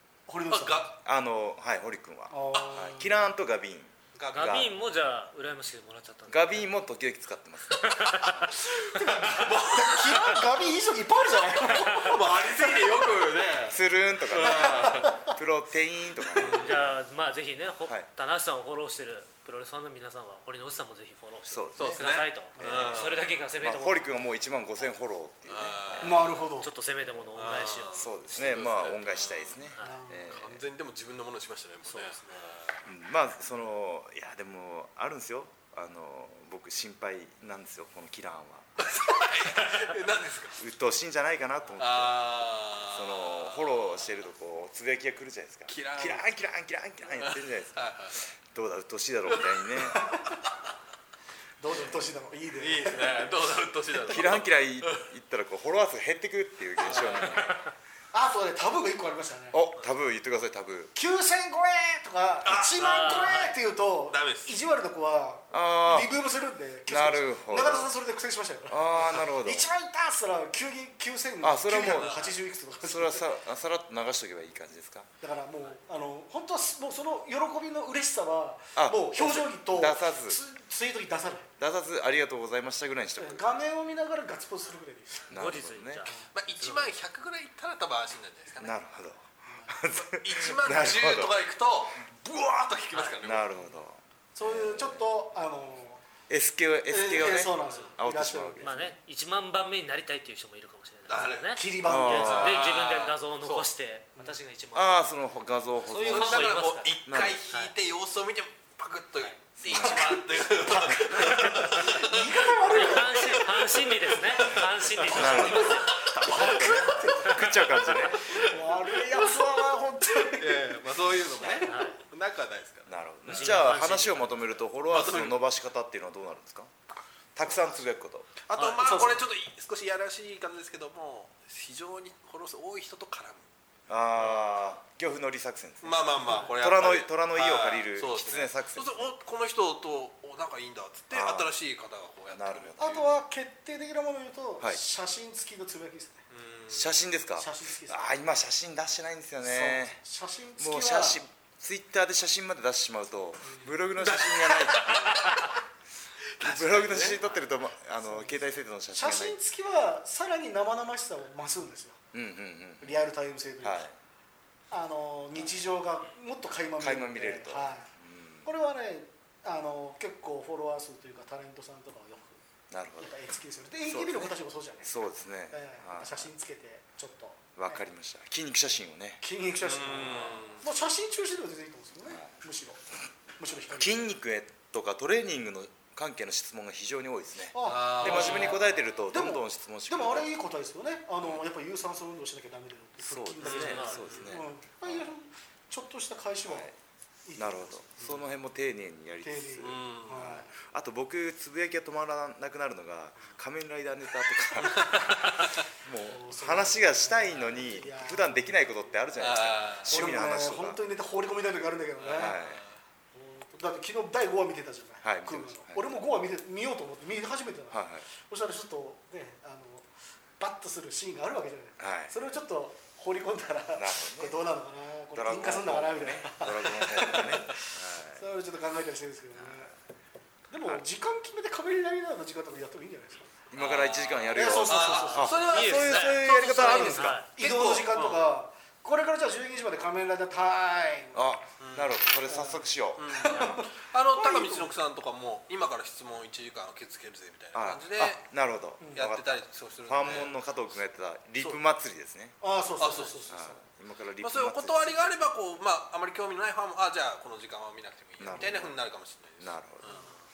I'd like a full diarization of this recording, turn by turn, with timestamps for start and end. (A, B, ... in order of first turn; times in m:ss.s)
0:00.3-0:00.9 A
0:00.5-0:01.0 B
0:01.0-0:04.8 C
0:02.3-0:03.3 A
0:04.1-0:04.8 B
0:04.3-0:06.6 D
0:06.3-0:08.5 C
0:07.7-0:09.5 D
0:08.7-0:13.0 A
0:09.3-0:10.3 B
0:11.6-0:15.2 B
0:11.7-0:12.2 D
0:13.7-0:16.9 C
0:14.3-0:15.4 A
0:16.3-0:16.9 B
0:16.6-0:24.1 D
0:21.5-0:22.0 C
0:21.7-0:23.3 B
0:22.6-0:23.0 A
0:22.6-0:23.1 C
0:23.6-0:26.2 C
0:25.5-0:26.3 B
0:26.0-0:26.7 A
0:26.6-0:28.1 D
0:27.3-0:29.7 B
0:27.9-0:30.6 C
0:29.8-0:30.4 A
0:30.2-0:32.8 B
0:31.8-0:32.2 D
0:32.8-0:38.9 C
0:38.8-0:40.6 B
0:40.6-0:50.1 C
0:41.8-0:44.1 B
0:45.7-0:46.2 B
0:47.1-0:48.2 B
0:49.3-0:50.3 B
0:49.9-0:50.3 A
0:51.6-0:53.3 A
0:52.6-0:55.1 B
0:54.0-0:57.6 C
0:56.8-0:57.5 B
0:57.2-0:57.6 D
0:58.1-0:59.6 A
0:59.5-1:00.9 C
1:00.9-1:13.3 A
1:02.4-1:02.7 B
1:02.8-1:03.5 D
1:04.1-1:04.5 B
1:05.5-1:06.1 C
1:06.9-1:07.9 C
1:08.7-1:09.7 C
1:11.4-1:12.2 C
1:11.9-1:12.4 B
1:12.8-1:15.1 C
1:15.2-1:21.5 A
1:18.8-1:20.4 C
1:21.6-1:23.4 C
1:23.2-1:25.4 A
1:25.3-1:26.1 C
1:25.3-1:26.9 D
1:26.3-1:28.8 B
1:28.6-1:31.4 C
1:29.4-1:29.7 A
1:29.9-1:33.6 B
1:32.9-1:33.2 D
1:33.2-1:35.0 C
1:34.3-1:36.0 A
1:36.3-1:38.9 C
1:36.9-1:38.9 A
1:37.6-1:37.9 B
1:38.6-1:45.1 D
1:41.1-1:43.7 B
1:41.5-1:42.6 A
1:41.8-1:42.6 C
1:44.7-1:47.4 C
1:45.8-1:47.0 D
1:45.9-1:57.0 B
1:49.6-1:50.2 C
1:50.6-1:53.4 A
1:51.2-1:51.5 D
1:52.6-1:56.1 D
1:55.1-1:58.4 C
1:56.2-2:01.7 A
1:58.2-1:59.7 B
2:00.2-2:04.0 B
2:01.5-2:02.0 D
2:02.9-2:06.7 C
2:03.3-2:04.6 D
2:04.9-2:05.4 B
2:07.3-2:08.3 C
2:08.4-2:13.5 B
2:08.6-2:09.0 D
2:08.8-2:09.2 A
2:13.9-2:19.1 C
2:14.2-2:14.5 B
2:15.8-2:23.2 B
2:16.2-2:16.5 A
2:21.1-2:21.5 C
2:22.3-2:23.0 C
2:22.8-2:26.2 A
2:26.3-2:27.0 B
2:26.7-2:30.0 C
2:27.4-2:28.1 A
2:29.4-2:31.2 A
2:30.6-2:35.2 C
2:34.0-2:35.5 B
2:35.0-2:35.5 D
2:36.3-2:37.4 B
2:36.4-2:39.4 C
2:38.0-2:38.4 A
2:38.9-2:42.0 A
2:42.1-2:43.0 C
2:42.8-2:43.9 A
2:43.6-2:43.9 C
2:44.7-2:47.9 A
2:46.8-2:48.5 C
2:48.4-2:52.4 A
2:52.7-2:53.1 C
2:53.0-2:55.0 A
2:53.9-2:56.3 C
2:55.5-2:57.8 A
2:57.6-2:59.2 C
2:59.2-3:04.1 A
2:59.6-3:00.6 B
3:02.0-3:02.3 C
3:03.7-3:10.3 C
3:07.5-3:16.7 A
3:07.6-3:08.8 B
3:13.0-3:15.1 C
3:13.4-3:14.3 B
3:13.4-3:14.2 D
3:16.4-3:16.7 C
3:17.2-3:17.8 A
3:17.4-3:30.8 C
3:19.2-3:20.5 A
3:19.6-3:20.4 B
3:24.6-3:25.4 B
3:26.0-3:28.6 A
3:29.2-3:30.2 B
3:29.9-3:32.4 A
3:32.0-3:32.7 B
3:32.1-3:32.6 C
3:33.1-3:39.9 A
3:35.0-3:35.8 C
3:37.7-3:38.1 C
3:40.4-3:49.7 A
3:41.8-3:42.1 C
3:43.7-3:44.4 C
3:45.1-3:48.2 C
3:49.4-3:49.7 C
3:50.5-3:53.3 A
3:53.5-3:57.2 C
3:53.5-3:56.8 B
3:54.3-4:01.3 A
3:54.8-3:57.3 D
3:57.4-3:58.3 B
4:01.1-4:03.4 C
4:01.6-4:02.0 B
4:02.3-4:04.7 A
4:03.0-4:08.2 B
4:07.5-4:12.4 C
4:08.9-4:10.4 B
4:12.4-4:13.6 A
4:12.8-4:13.3 B
4:13.3-4:15.2 C
4:14.2-4:20.2 B
4:18.2-4:18.8 C
4:19.4-4:19.9 C